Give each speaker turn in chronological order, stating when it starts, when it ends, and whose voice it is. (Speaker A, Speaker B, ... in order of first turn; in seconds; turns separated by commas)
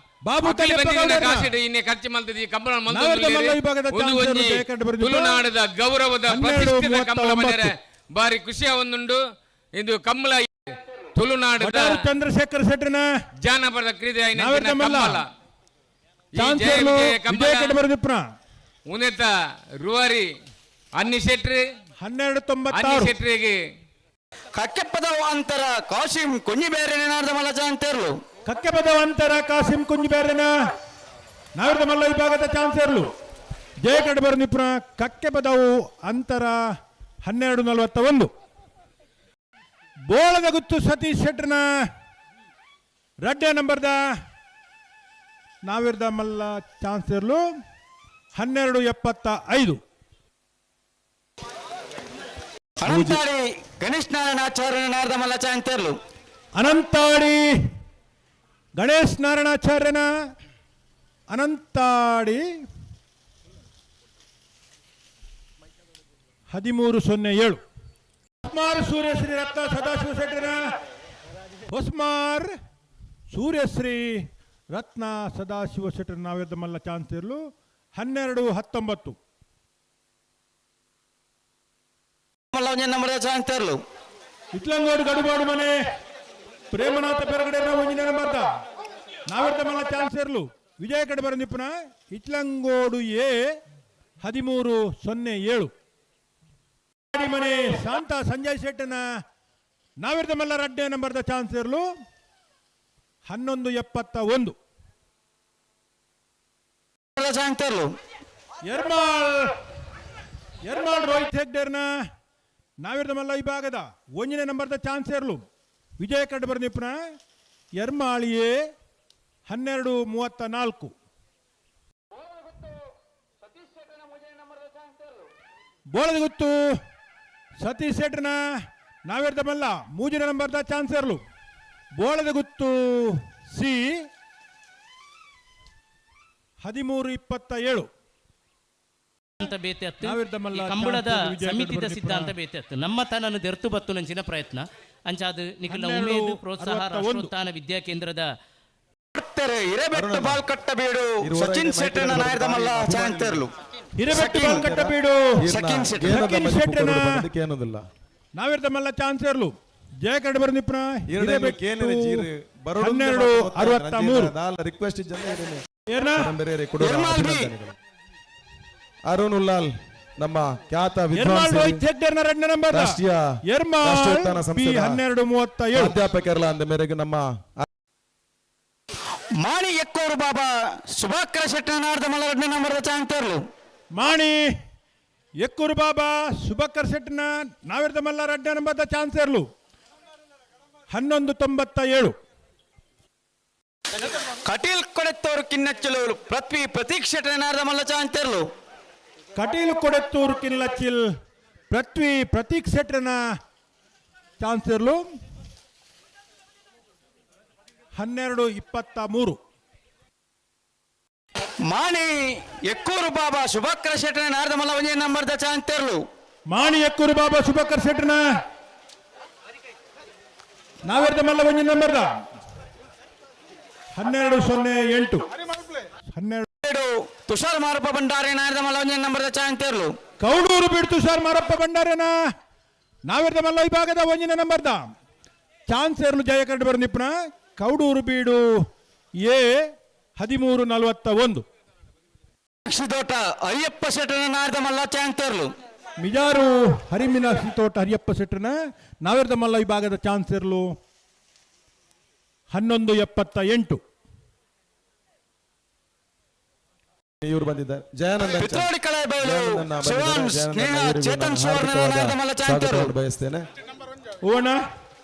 Speaker A: 0.2-1.6, Speaker B: 0.4-9.2, Speaker A: 2.9-5.4, Speaker A: 6.3-7.7, Speaker B: 9.8-10.5, Speaker B: 11.2-11.9, Speaker A: 11.6-13.1, Speaker B: 13.4-15.2, Speaker A: 14.3-15.2, Speaker B: 16.4-17.8, Speaker A: 16.4-18.2, Speaker B: 18.9-19.3, Speaker B: 19.8-20.3, Speaker B: 21.0-21.6, Speaker A: 22.0-23.1, Speaker B: 22.7-23.6, Speaker C: 24.6-28.2, Speaker A: 28.5-30.5, Speaker A: 31.6-33.1, Speaker A: 33.8-36.6, Speaker A: 37.2-38.3, Speaker A: 40.1-41.7, Speaker A: 43.2-44.0, Speaker A: 45.6-47.4, Speaker A: 48.4-49.8, Speaker C: 52.8-56.0, Speaker D: 52.9-53.2, Speaker A: 56.5-57.5, Speaker A: 58.8-60.1, Speaker A: 61.3-62.5, Speaker A: 66.5-67.6, Speaker A: 68.4-70.7, Speaker A: 71.7-72.5, Speaker A: 73.3-77.4, Speaker A: 78.0-79.2, Speaker C: 82.5-83.8, Speaker A: 84.5-85.8, Speaker A: 86.7-88.5, Speaker A: 89.3-93.6, Speaker A: 94.2-95.7, Speaker A: 97.1-99.0, Speaker A: 100.0-101.9, Speaker A: 103.2-104.6, Speaker C: 107.2-107.9, Speaker A: 108.6-109.5, Speaker A: 110.6-111.9, Speaker A: 112.8-115.4, Speaker A: 116.0-117.0, Speaker A: 117.8-118.7, Speaker A: 119.5-121.0, Speaker C: 122.2-122.8, Speaker C: 123.4-125.3, Speaker A: 125.9-126.7, Speaker A: 127.6-128.4, Speaker A: 129.1-131.2, Speaker A: 132.0-134.1, Speaker A: 136.6-137.9, Speaker E: 139.4-148.3, Speaker A: 140.0-142.3, Speaker A: 145.7-147.3, Speaker C: 149.1-153.5, Speaker D: 149.9-150.5, Speaker D: 151.2-153.4, Speaker A: 154.0-155.3, Speaker C: 154.1-154.6, Speaker D: 154.5-157.8, Speaker C: 155.5-156.2, Speaker A: 156.1-157.3, Speaker A: 158.3-162.3, Speaker D: 161.1-165.7, Speaker A: 162.8-164.3, Speaker A: 165.9-166.3, Speaker D: 166.2-167.8, Speaker C: 166.8-167.5, Speaker D: 169.1-171.8, Speaker A: 171.1-176.0, Speaker D: 172.7-173.2, Speaker D: 173.8-175.0, Speaker D: 175.7-177.7, Speaker C: 179.4-183.4, Speaker A: 183.9-184.5, Speaker A: 185.4-189.5, Speaker A: 190.9-192.1, Speaker C: 194.4-198.4, Speaker A: 199.4-201.1, Speaker A: 201.7-203.2, Speaker A: 204.4-205.1, Speaker A: 207.9-209.4, Speaker C: 211.7-216.0, Speaker A: 216.5-218.2, Speaker A: 220.8-222.1, Speaker A: 223.9-225.3, Speaker A: 226.1-226.5, Speaker C: 226.6-230.0, Speaker A: 230.2-232.2, Speaker A: 233.1-234.9, Speaker A: 235.7-238.4, Speaker A: 239.2-241.4, Speaker C: 242.7-245.5, Speaker A: 246.0-250.7, Speaker A: 252.5-253.8, Speaker D: 257.2-263.4, Speaker C: 258.2-262.9, Speaker A: 264.2-264.6